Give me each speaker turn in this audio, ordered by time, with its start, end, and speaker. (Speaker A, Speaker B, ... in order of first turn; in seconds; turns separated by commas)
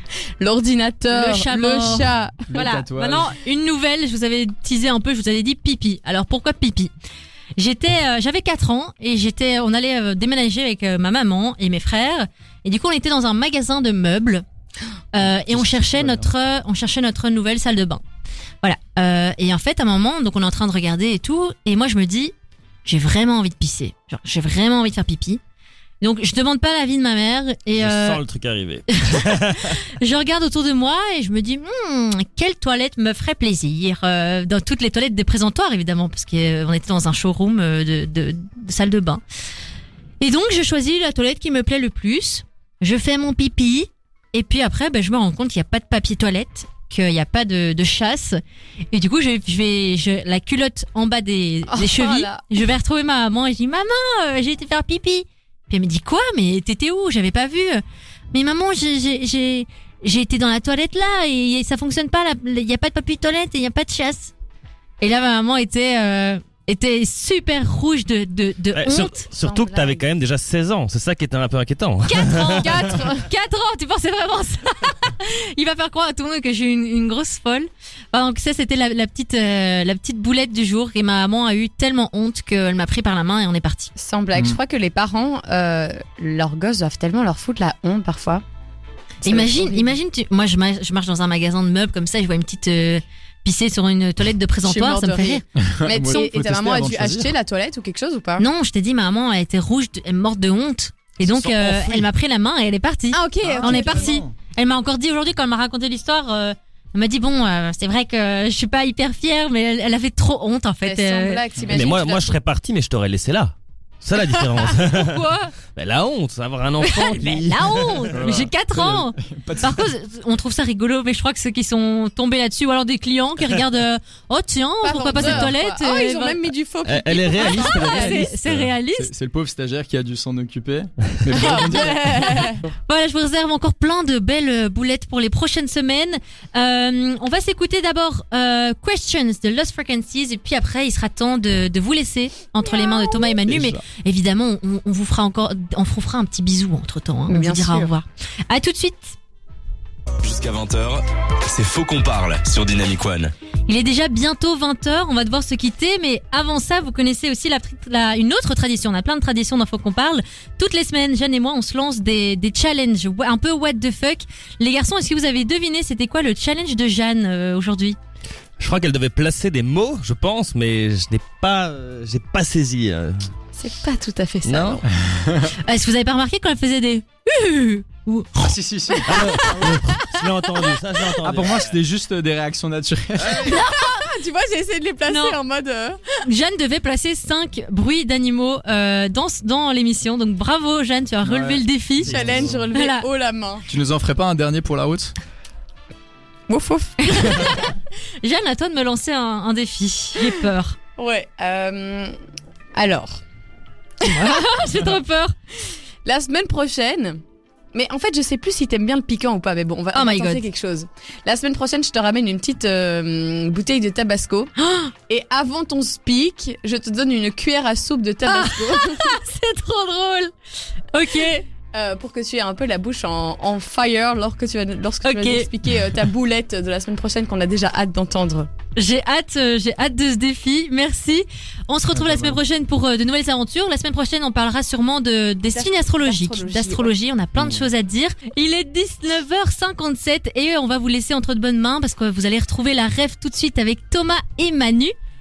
Speaker A: 0.4-2.4, Speaker B: 1.1-6.9, Speaker C: 2.0-3.4, Speaker B: 7.6-14.4, Speaker B: 15.1-18.0, Speaker C: 15.4-16.2, Speaker B: 18.6-22.3, Speaker B: 22.8-25.4, Speaker B: 26.0-28.2, Speaker D: 27.7-29.8, Speaker B: 28.9-39.2, Speaker B: 40.2-48.4, Speaker B: 48.9-64.3, Speaker A: 51.7-52.4, Speaker B: 65.0-69.2, Speaker D: 68.7-72.8, Speaker A: 69.3-70.0, Speaker B: 72.1-83.9, Speaker A: 72.5-73.2, Speaker A: 84.0-88.4, Speaker A: 89.2-90.0, Speaker B: 89.2-95.4, Speaker A: 94.6-98.4, Speaker C: 95.6-97.3, Speaker B: 98.4-111.4, Speaker C: 101.2-102.0, Speaker A: 103.1-104.2, Speaker C: 103.4-104.3, Speaker A: 110.8-112.3, Speaker D: 111.7-118.1, Speaker B: 114.3-115.5, Speaker B: 116.8-126.4, Speaker C: 118.1-119.9, Speaker A: 124.8-128.2, Speaker C: 125.2-125.4, Speaker D: 126.8-128.7, Speaker B: 127.3-129.1, Speaker C: 128.9-132.6, Speaker A: 131.3-132.6, Speaker B: 132.1-149.1, Speaker C: 143.5-143.8, Speaker A: 147.3-147.9, Speaker E: 150.2-153.3, Speaker B: 153.7-168.0, Speaker D: 168.6-173.3, Speaker A: 173.5-174.8, Speaker D: 174.4-174.8, Speaker C: 174.9-175.5, Speaker B: 175.5-178.5, Speaker C: 178.3-179.8, Speaker D: 179.1-181.8, Speaker A: 179.7-180.2, Speaker C: 181.2-183.5, Speaker A: 183.3-186.0, Speaker B: 183.4-184.1, Speaker B: 185.1-185.4, Speaker B: 186.2-192.2, Speaker C: 191.2-192.7, Speaker A: 192.1-193.7, Speaker D: 192.1-192.6, Speaker B: 192.7-193.1, Speaker C: 193.7-195.2, Speaker A: 196.5-197.7, Speaker B: 197.0-197.7, Speaker B: 198.2-200.8, Speaker A: 201.0-202.1, Speaker A: 202.8-203.2, Speaker B: 204.0-205.3, Speaker A: 204.0-204.3, Speaker A: 206.1-207.2, Speaker A: 207.7-214.5, Speaker B: 209.9-210.4, Speaker B: 214.6-214.9, Speaker A: 215.1-219.2, Speaker B: 218.2-220.3, Speaker B: 220.9-221.4, Speaker A: 221.7-228.5, Speaker B: 225.0-225.5, Speaker B: 228.8-244.9, Speaker C: 231.9-232.4, Speaker A: 235.5-236.9